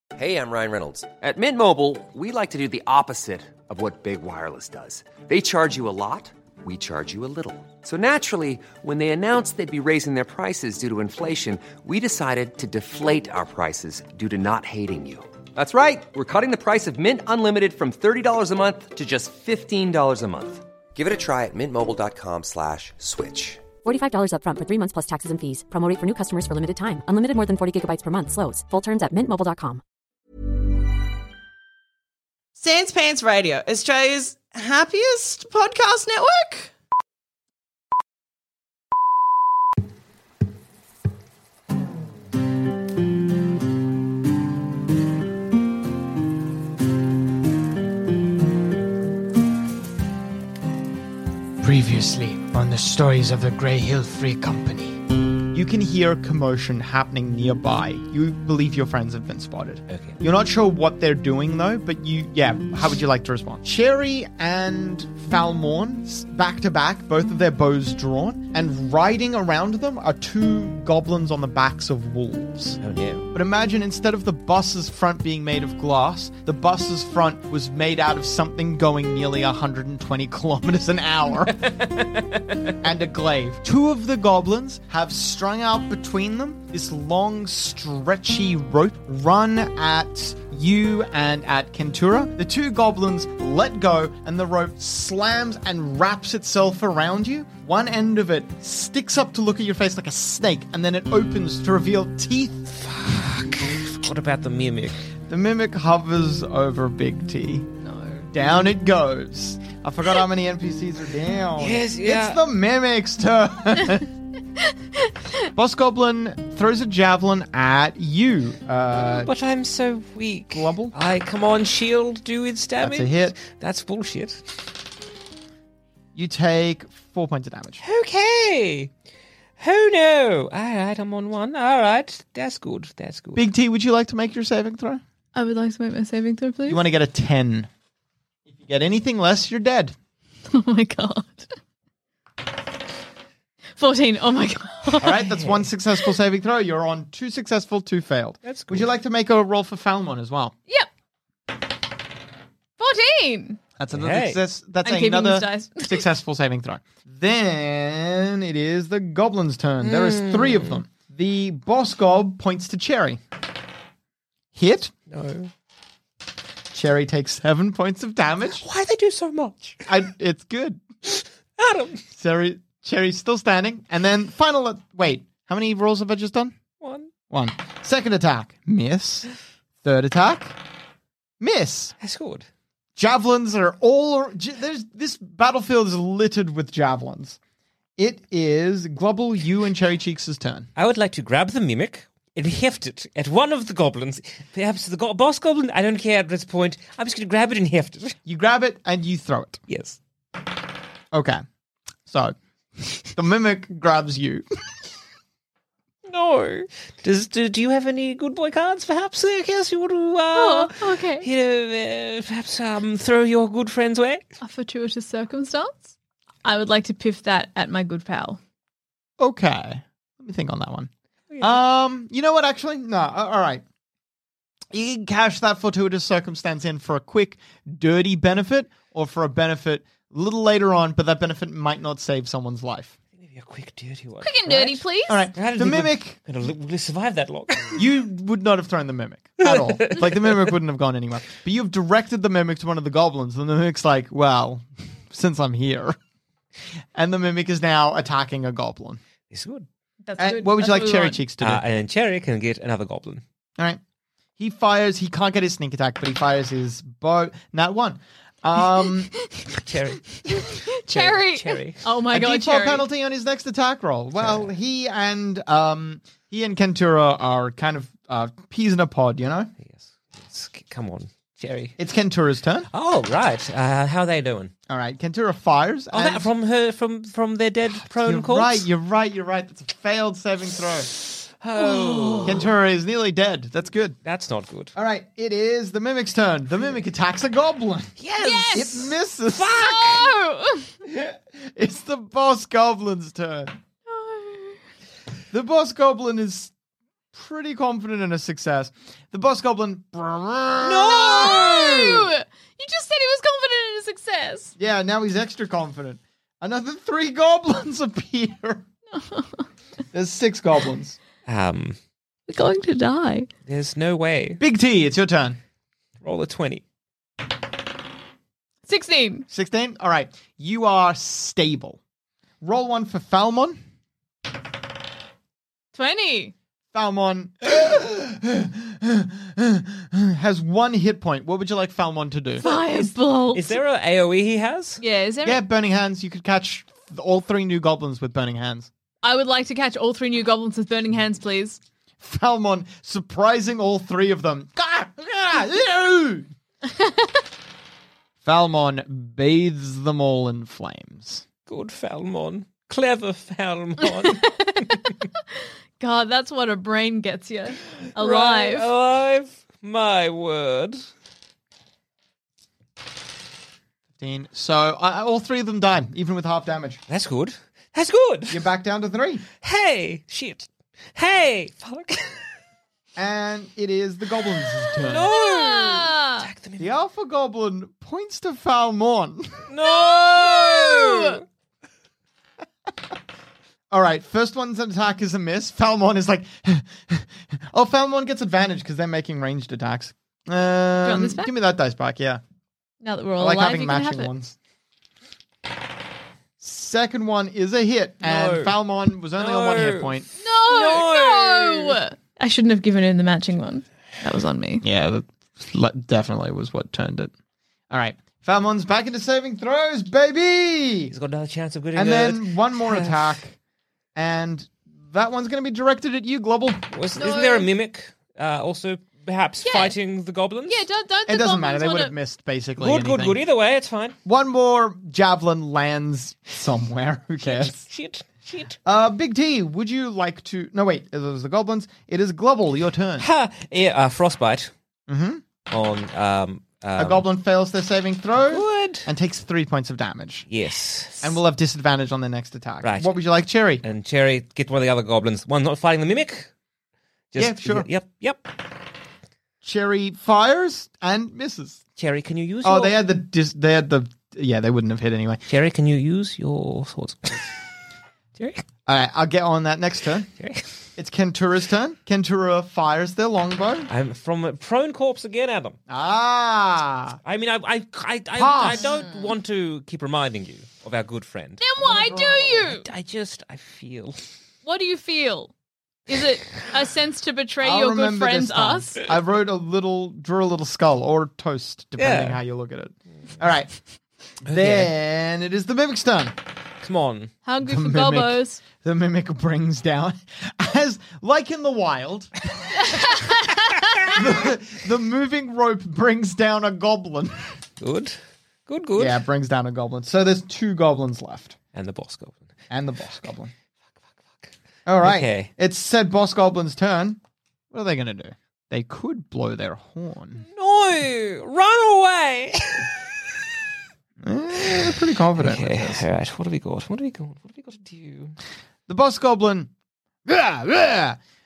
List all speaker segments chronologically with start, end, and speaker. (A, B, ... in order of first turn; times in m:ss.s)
0:00.1-0:23.6 A
0:23.8-0:29.8 B
0:32.6-0:36.7 C
0:51.6-0:55.0 D
0:55.5-1:12.8 D
0:59.9-1:00.2 E
1:12.8-1:13.3 E
1:13.3-1:21.6 D
1:21.5-1:22.6 E
1:22.8-1:42.9 D
1:42.8-1:45.0 E
1:45.3-1:47.7 D
1:47.8-1:48.2 F
1:48.3-1:54.1 D
1:51.6-1:52.4 E
1:55.5-1:59.3 D
1:59.0-2:04.4 E
2:00.5-2:00.9 D
2:02.8-2:03.3 D
2:06.1-2:07.8 D
2:07.8-2:08.9 E
2:09.6-2:13.5 E
2:13.3-2:15.0 D
2:15.3-2:16.8 F
2:16.7-2:17.7 D
2:18.5-2:19.9 D
2:20.5-2:21.5 F
2:23.8-2:25.2 F
2:24.9-2:30.5 D
2:28.4-2:28.9 E
2:32.8-2:33.6 F
2:33.8-2:43.2 D
2:33.9-2:34.4 E
2:34.8-2:36.0 F
2:39.8-2:40.8 E
2:44.5-2:44.9 D
2:45.1-2:45.5 E
2:46.7-2:48.6 D
2:48.6-2:49.9 E
2:49.9-2:50.8 D
2:51.1-2:52.0 E
2:52.1-2:56.6 D
2:56.8-2:57.1 E
2:57.3-2:59.3 D
2:59.8-3:00.6 D
3:01.4-3:02.0 D
3:02.0-3:02.5 E
3:03.0-3:07.4 D
3:08.0-3:10.7 D
3:10.8-3:18.2 E
3:18.2-3:19.6 D
3:19.7-3:20.0 E
3:21.1-3:21.4 D
3:22.1-3:22.4 D
3:22.9-3:24.4 D
3:26.1-3:34.3 E
3:30.3-3:31.3 F
3:34.4-3:35.9 F
3:36.4-3:38.4 F
3:39.2-3:43.6 D
3:44.7-3:53.0 D
3:53.2-3:57.8 E
3:54.2-3:55.3 F
3:55.1-3:56.2 D
3:57.7-4:06.0 D
3:59.4-4:00.4 E
4:06.9-4:09.0 D
4:09.3-4:09.7 E
4:10.0-4:11.2 F
4:10.2-4:11.6 D
4:11.4-4:13.2 E
4:14.4-4:19.1 D
4:19.5-4:21.8 E
4:20.3-4:22.8 F
4:22.1-4:29.5 D
4:24.2-4:24.5 E
4:29.6-4:31.7 E
4:31.8-4:32.7 D
4:32.7-4:34.5 E
4:34.7-4:36.3 D
4:35.9-4:38.7 E
4:37.8-4:40.9 D
4:41.1-4:42.5 E
4:41.7-4:42.3 F
4:42.2-4:44.0 D
4:44.0-4:44.7 E
4:44.7-4:48.0 D
4:48.0-4:50.1 E
4:48.2-4:48.9 F
4:48.5-4:49.7 D
4:49.6-4:50.7 F
4:50.8-4:53.6 D
4:53.9-4:54.6 F
4:55.3-4:56.5 D
4:57.1-5:02.1 D
5:00.6-5:04.5 F
5:04.6-5:08.6 D
5:08.9-5:09.4 F
5:09.9-5:11.0 D
5:11.2-5:11.8 E
5:12.3-5:13.3 F
5:13.4-5:14.4 E
5:14.4-5:15.4 D
5:16.0-5:16.6 E
5:18.7-5:19.2 F
5:19.3-5:21.8 D
5:22.4-5:23.6 D
5:25.7-5:26.3 F
5:26.7-5:32.5 D
5:32.4-5:33.6 F
5:32.8-5:34.8 E
5:34.8-5:35.4 F
5:35.2-5:38.7 D
5:39.0-5:41.6 F
5:42.0-5:46.3 D
5:46.7-5:47.1 F
5:48.2-5:51.2 D
5:51.5-5:54.9 E
5:53.8-5:55.0 F
5:55.8-5:58.7 F
5:57.9-6:00.8 E
6:04.0-6:06.8 D
6:06.9-6:08.4 E
6:08.3-6:09.2 D
6:09.4-6:12.2 E
6:13.0-6:15.1 D
6:14.8-6:16.7 E
6:15.0-6:16.2 F
6:16.6-6:19.5 D
6:19.5-6:21.2 E
6:19.6-6:21.2 F
6:23.7-6:32.2 D
6:30.8-6:31.3 F
6:32.8-6:34.1 F
6:33.2-6:34.4 D
6:36.4-6:40.1 D
6:38.0-6:38.6 E
6:39.2-6:41.8 E
6:40.2-6:44.6 F
6:44.6-6:47.1 D
6:47.7-6:50.9 D
6:50.9-6:53.2 E
6:51.7-6:53.4 D
6:53.9-6:56.7 D
6:56.7-7:00.6 E
6:57.0-6:57.5 F
6:59.4-6:59.8 F
7:00.5-7:01.9 F
7:01.1-7:03.2 D
7:02.6-7:03.9 E
7:04.0-7:07.6 D
7:07.2-7:08.6 E
7:08.6-7:13.1 D
7:13.0-7:14.5 E
7:14.9-7:15.2 D
7:15.5-7:17.0 E
7:16.8-7:20.3 D
7:18.3-7:18.9 E
7:20.3-7:21.1 E
7:21.0-7:23.6 D
7:22.6-7:22.9 E
7:23.6-7:26.3 E
7:27.1-7:28.3 E
7:27.1-7:27.7 D
7:29.4-7:31.6 D
7:31.8-7:32.8 E
7:32.4-7:35.2 D
7:35.3-7:37.3 E
7:38.2-7:38.4 E
7:38.7-7:40.1 D
7:40.2-7:40.5 E
7:40.8-7:43.7 D
7:43.7-7:45.6 E
7:45.7-7:47.0 D
7:47.0-7:51.5 E
7:48.1-7:48.7 D
7:51.4-7:52.6 F
7:51.6-7:52.4 D
7:52.5-7:54.0 E
7:54.4-7:55.3 F
7:55.9-7:58.8 F
7:57.4-8:03.5 D
8:01.8-8:02.2 E
8:04.3-8:04.7 E
8:04.3-8:06.2 D
8:06.6-8:07.1 E
8:07.2-8:08.4 F
8:07.4-8:12.2 D
8:12.6-8:13.7 F
8:13.9-8:17.4 D
8:17.6-8:19.0 E
8:18.8-8:21.4 D
8:21.5-8:22.3 E
8:22.5-8:23.3 D
8:24.6-8:27.0 D
8:24.8-8:25.3 E
8:27.5-8:30.2 D
8:30.2-8:32.7 E
8:34.0-8:35.8 D
8:34.4-8:38.2 E
8:38.7-8:39.5 D
8:40.0-8:41.0 D